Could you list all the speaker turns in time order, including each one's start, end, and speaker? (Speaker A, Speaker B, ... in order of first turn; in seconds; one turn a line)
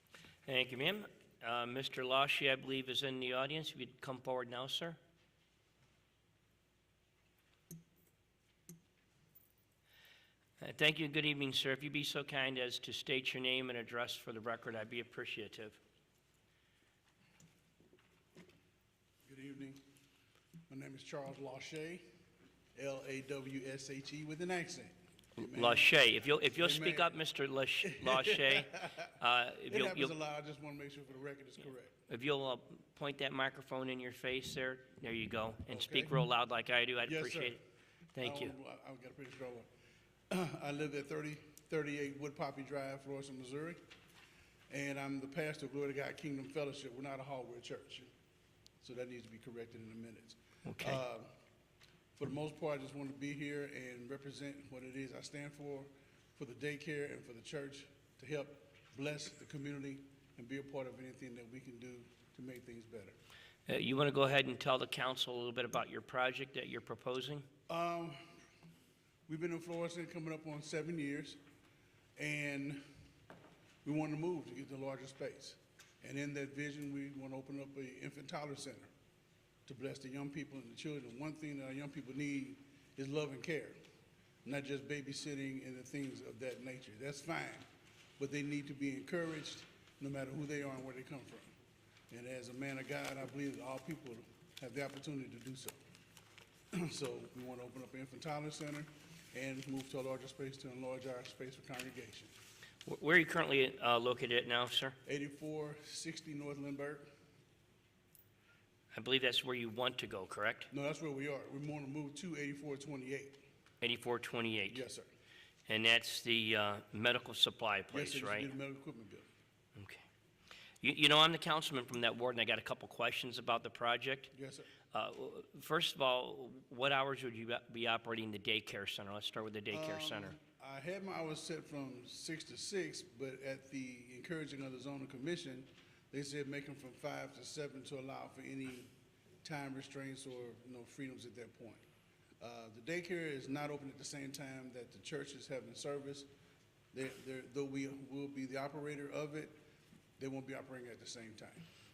Speaker A: 0.5-5.0
Speaker A: 10.6-15.8
Speaker B: 19.3-19.8
Speaker B: 20.7-22.0
Speaker B: 22.7-25.9
Speaker A: 25.4-30.1
Speaker B: 26.6-27.1
Speaker B: 27.8-29.1
Speaker B: 29.7-31.9
Speaker A: 32.1-37.6
Speaker B: 35.7-36.1
Speaker B: 37.0-37.6
Speaker A: 38.2-38.5
Speaker B: 38.2-39.7
Speaker B: 40.3-43.8
Speaker B: 44.7-48.1
Speaker B: 48.8-51.3
Speaker A: 50.6-51.0
Speaker B: 52.1-63.1
Speaker A: 63.7-67.5
Speaker B: 67.7-68.2
Speaker B: 69.3-71.4
Speaker B: 72.2-72.8
Speaker B: 73.8-78.9
Speaker B: 79.7-83.8
Speaker B: 84.4-87.7
Speaker B: 88.2-91.5
Speaker B: 92.1-95.8
Speaker B: 96.7-102.3
Speaker A: 102.8-105.0
Speaker B: 105.0-107.1
Speaker A: 108.9-110.7
Speaker B: 110.7-113.4
Speaker A: 113.8-114.8
Speaker B: 114.7-115.1
Speaker A: 115.7-118.5
Speaker B: 117.9-119.2
Speaker A: 119.8-120.0
Speaker A: 120.8-124.3
Speaker B: 124.3-124.7
Speaker A: 124.9-130.4
Speaker B: 129.7-138.9
Speaker B: 139.4-141.8
Speaker B: 142.4-146.3
Speaker B: 146.9-149.6
Speaker B: 150.2-151.7